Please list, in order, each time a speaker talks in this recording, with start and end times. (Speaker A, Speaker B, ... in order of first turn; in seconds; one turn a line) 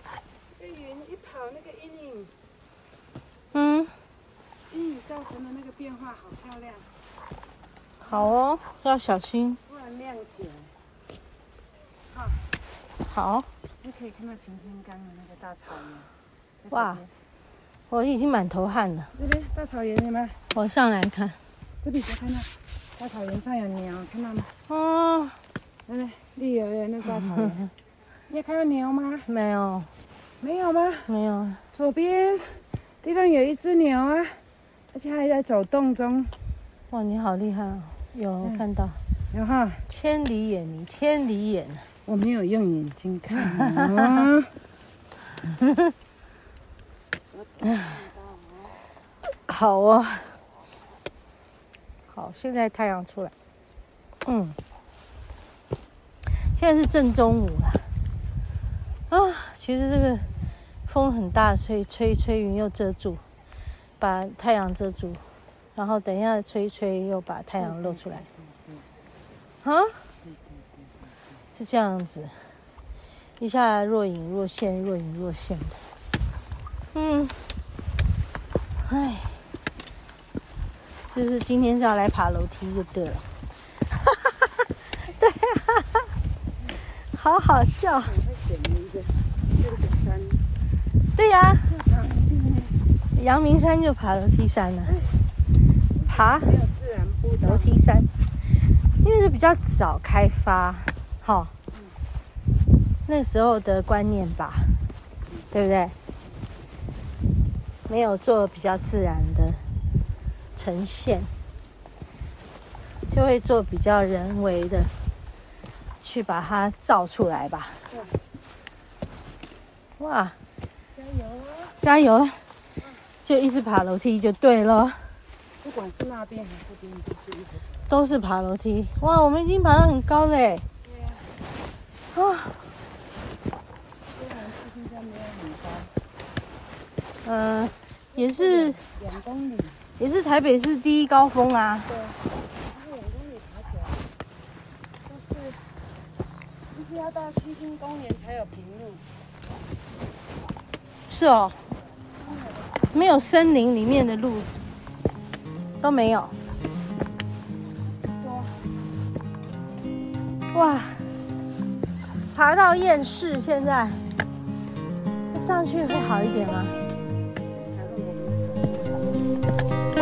Speaker A: 0.5-2.3
Speaker B: 3.5-4.0
Speaker A: 4.7-6.9
Speaker B: 8.0-9.6
Speaker A: 9.7-10.8
Speaker A: 12.1-12.5
Speaker B: 13.0-13.5
Speaker A: 13.8-16.1
Speaker A: 16.6-17.1
Speaker B: 16.7-17.0
Speaker B: 17.9-19.1
Speaker A: 19.1-20.4
Speaker B: 20.5-21.4
Speaker A: 21.8-24.5
Speaker B: 24.7-25.4
Speaker A: 25.9-27.7
Speaker A: 28.3-29.3
Speaker B: 29.2-29.9
Speaker A: 30.4-31.1
Speaker B: 31.1-31.6
Speaker A: 31.7-36.3
Speaker B: 36.9-39.0
Speaker A: 39.3-39.9
Speaker B: 39.9-41.9
Speaker A: 42.0-44.5
Speaker B: 45.6-45.9
Speaker A: 47.3-48.8
Speaker B: 49.3-50.4
Speaker B: 52.1-53.3
Speaker B: 54.2-54.6
Speaker B: 56.3-57.9
Speaker B: 59.1-60.3
Speaker B: 60.9-63.2
Speaker B: 64.0-68.3
Speaker A: 67.6-68.9
Speaker B: 69.6-70.0
Speaker A: 70.2-71.2
Speaker B: 71.5-72.5
Speaker B: 73.4-75.8
Speaker B: 76.9-77.4
Speaker B: 78.8-79.4
Speaker B: 81.1-83.3
Speaker B: 85.2-86.1
Speaker B: 87.0-88.2
Speaker A: 88.0-90.4
Speaker B: 91.1-91.7
Speaker A: 91.6-92.8
Speaker B: 93.1-95.0
Speaker A: 94.9-95.1
Speaker A: 95.9-97.7
Speaker B: 96.1-96.5
Speaker B: 97.4-98.1
Speaker B: 98.8-101.5
Speaker A: 101.7-102.0
Speaker B: 103.0-104.8
Speaker B: 105.5-105.9
Speaker B: 107.8-109.6
Speaker B: 110.5-111.3
Speaker B: 113.0-114.9
Speaker B: 116.0-117.8
Speaker A: 117.9-118.2
Speaker B: 120.0-120.4
Speaker A: 120.9-121.8
Speaker B: 121.8-122.5
Speaker B: 123.2-125.2
Speaker A: 125.6-127.9
Speaker B: 127.9-130.7
Speaker A: 130.8-131.3
Speaker B: 132.1-132.7
Speaker A: 134.1-135.9
Speaker B: 137.2-138.8
Speaker A: 138.2-139.8
Speaker B: 140.0-141.9
Speaker A: 141.8-144.1
Speaker A: 145.0-145.6
Speaker A: 146.7-149.0
Speaker B: 151.1-151.6
Speaker A: 152.2-153.3
Speaker B: 152.9-154.5
Speaker B: 155.8-156.3
Speaker A: 158.1-158.6
Speaker B: 160.5-161.2
Speaker B: 162.3-164.1
Speaker B: 165.3-166.8
Speaker A: 167.5-169.2